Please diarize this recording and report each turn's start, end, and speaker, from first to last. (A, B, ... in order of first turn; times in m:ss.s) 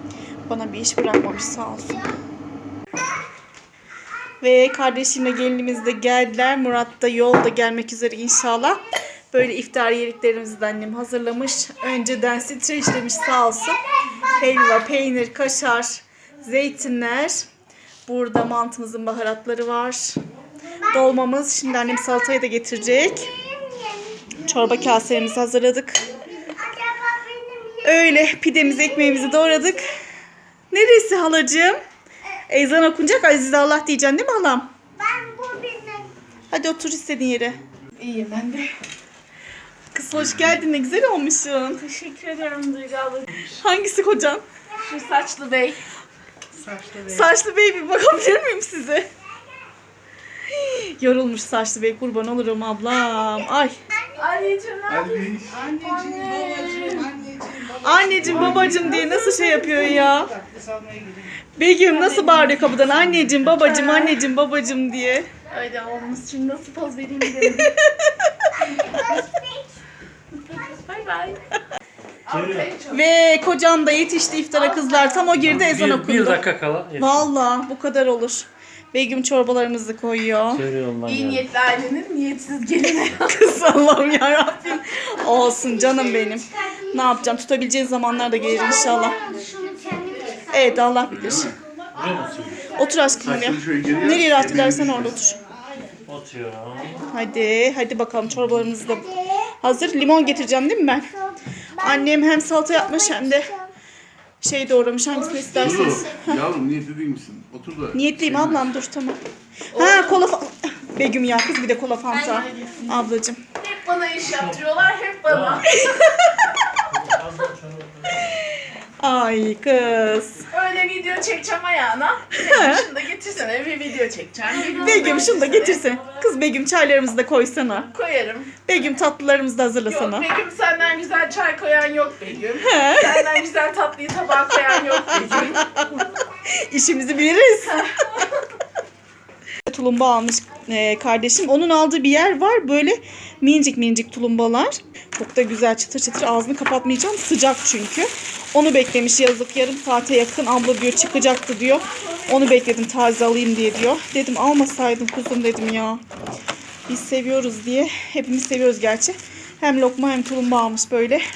0:00.5-0:02.0 A
0:04.4-0:17.4 A
0:18.0-0:20.2 A
0:20.9-0:23.3 A
0:21.8-0:22.2 B
0:23.1-0:25.0 B
0:24.4-0:26.0 A
0:26.3-0:29.8 B
0:27.8-0:29.8 A
0:30.7-0:31.8 A
0:32.5-0:34.7 A
0:35.0-0:36.1 B
0:36.5-0:38.7 A
0:39.9-0:41.9 A
0:41.8-0:43.5 C
0:43.5-0:44.4 A
0:44.8-0:45.8 C
0:46.9-0:49.1 A
0:50.5-0:53.7 A
0:54.2-0:57.2 C
0:54.9-0:55.6 D
0:55.7-0:56.7 B
0:57.7-1:00.3 A
1:01.6-1:05.3 A
1:01.9-1:04.1 C
1:05.5-1:07.7 C
1:07.4-1:08.5 A
1:08.6-1:09.7 B
1:10.4-1:11.4 C
1:12.3-1:13.0 C
1:12.3-1:12.7 E
1:12.9-1:20.6 A
1:15.3-1:17.3 E
1:20.5-1:21.5 E
1:21.0-1:23.3 C
1:23.0-1:29.2 A
1:25.2-1:27.2 B
1:28.2-1:31.0 B
1:30.5-1:31.5 A
1:31.1-1:31.6 D
1:31.9-1:32.7 E
1:32.7-1:35.4 A
1:33.2-1:35.3 D
1:36.0-1:37.0 E
1:37.1-1:39.1 A
1:38.3-1:38.6 E
1:39.1-1:40.3 B
1:39.6-1:41.1 A
1:41.1-1:43.7 B
1:41.8-1:43.5 A
1:44.4-1:46.4 A
1:45.5-1:48.6 D
1:47.9-1:49.2 A
1:49.7-1:53.4 A
1:49.8-1:50.1 C
1:53.6-1:55.6 C
1:54.2-1:55.7 E
1:55.6-1:56.4 A
1:56.9-1:58.3 E
1:59.0-2:00.4 A
2:00.5-2:05.9 C
2:02.3-2:02.9 A
2:04.6-2:07.9 A
2:07.9-2:08.5 C
2:08.6-2:10.3 A
2:09.9-2:15.7 C
2:12.6-2:13.4 A
2:14.9-2:17.8 A
2:17.8-2:18.2 C
2:19.6-2:36.0 A
2:36.9-2:41.2 A